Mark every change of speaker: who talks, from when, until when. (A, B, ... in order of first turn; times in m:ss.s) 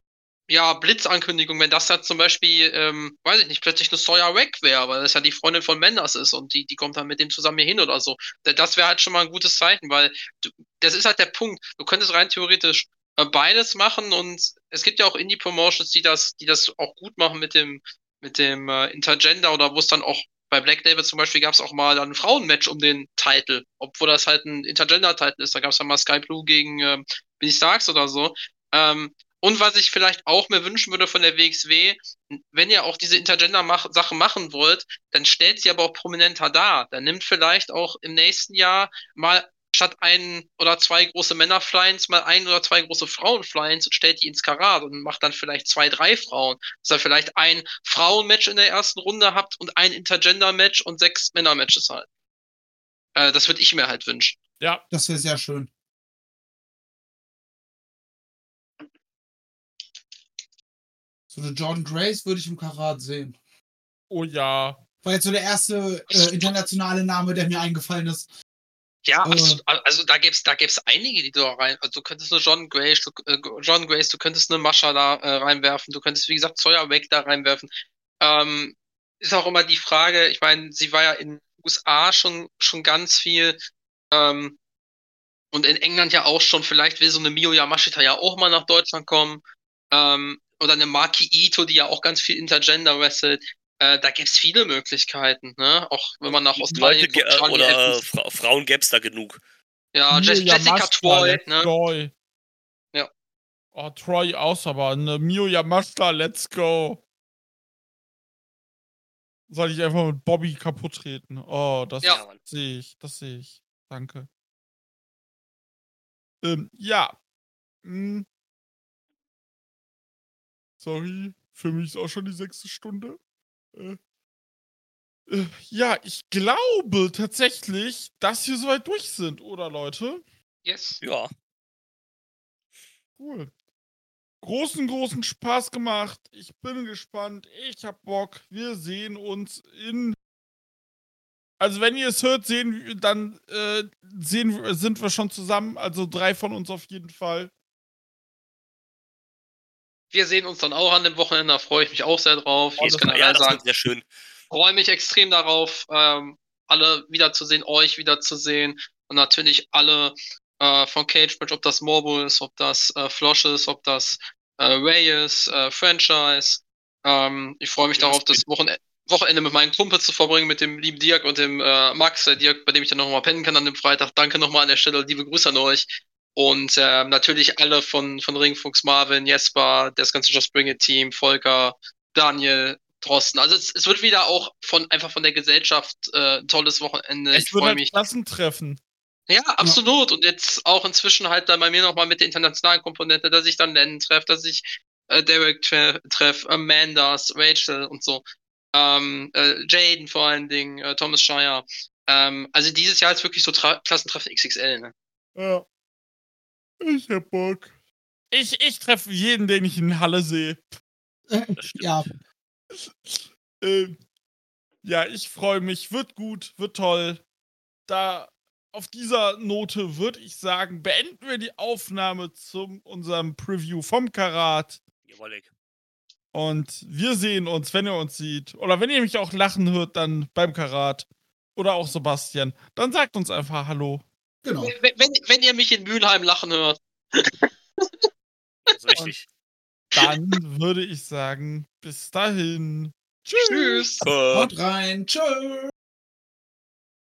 0:00.5-0:52.1 A
0:53.1-0:54.4 A
0:54.9-0:55.7 B
1:01.3-1:03.4 B
1:04.1-1:04.8 C
1:05.0-1:08.3 B
1:06.1-1:06.5 A
1:09.0-1:17.7 A
1:09.2-1:09.6 B
1:18.2-1:23.6 A
1:24.1-1:24.6 A
1:25.5-1:29.4 A
1:29.9-1:38.0 A
1:36.6-1:39.4 D
1:39.9-1:41.7 A
1:40.1-1:42.1 C
1:43.7-1:47.0 C
1:49.5-1:54.3 C
1:52.0-1:52.4 D
1:56.4-1:57.1 C
1:57.8-1:58.2 C
2:00.8-2:03.2 C
2:05.3-2:10.2 C
2:10.6-2:11.0 A
2:11.0-2:11.3 D
2:13.2-2:13.5 C
2:14.4-2:20.2 C
2:21.6-2:27.5 C
2:30.1-2:33.6 A
2:32.8-2:34.1 D
2:34.5-3:08.0 A
2:47.9-2:48.4 D
3:07.3-3:08.8 C
3:09.3-3:24.9 A
3:25.4-3:25.6 C
3:26.8-3:27.7 C
3:28.3-3:30.8 C
3:31.3-3:32.1 B
3:31.6-3:31.9 D
3:32.7-3:34.0 C
3:34.8-3:37.2 C
3:37.9-3:44.8 C
3:45.1-3:45.5 D
3:46.3-3:54.0 C
3:54.4-3:54.7 B
3:54.6-3:58.0 A
3:58.7-3:59.2 D
3:59.9-4:03.9 C
4:03.4-4:04.0 A
4:04.0-4:04.5 D
4:04.3-4:05.7 B